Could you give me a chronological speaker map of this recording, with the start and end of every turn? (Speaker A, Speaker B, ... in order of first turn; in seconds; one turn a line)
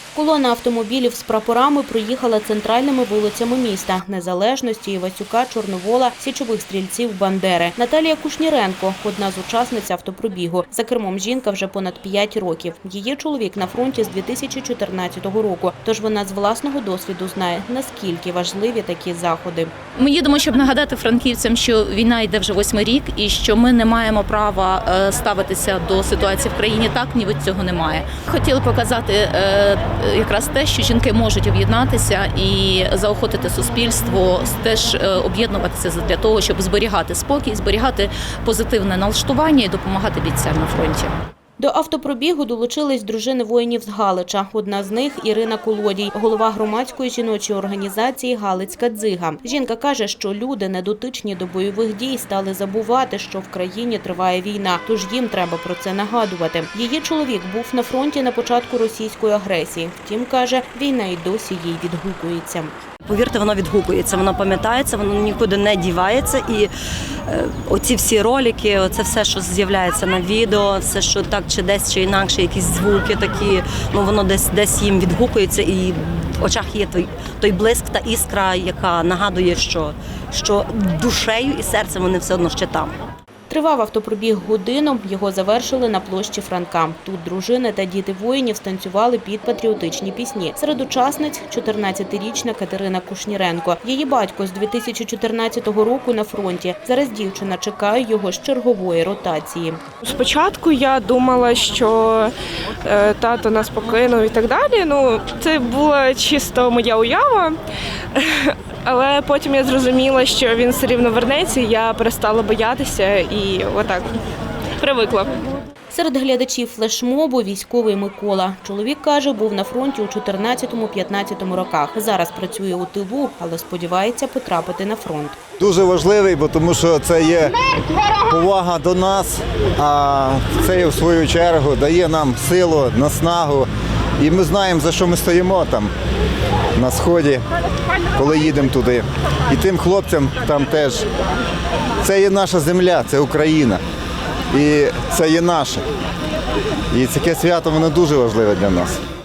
Speaker A: 0.1-19.7
Speaker B: 20.0-41.1
Speaker A: 41.6-62.7
Speaker C: 63.0-66.7
Speaker C: 67.2-82.9
Speaker A: 83.5-99.8
Speaker D: 100.0-102.3
Speaker D: 102.8-107.6
Speaker D: 108.1-114.2
Speaker D: 114.8-115.4
Speaker A: 115.9-125.4
Speaker E: 125.6-127.6
Speaker E: 128.1-135.9
Speaker E: 136.8-137.4
Speaker E: 138.1-141.1
Speaker E: 142.0-143.8
Speaker E: 144.5-145.8
Speaker E: 146.9-149.0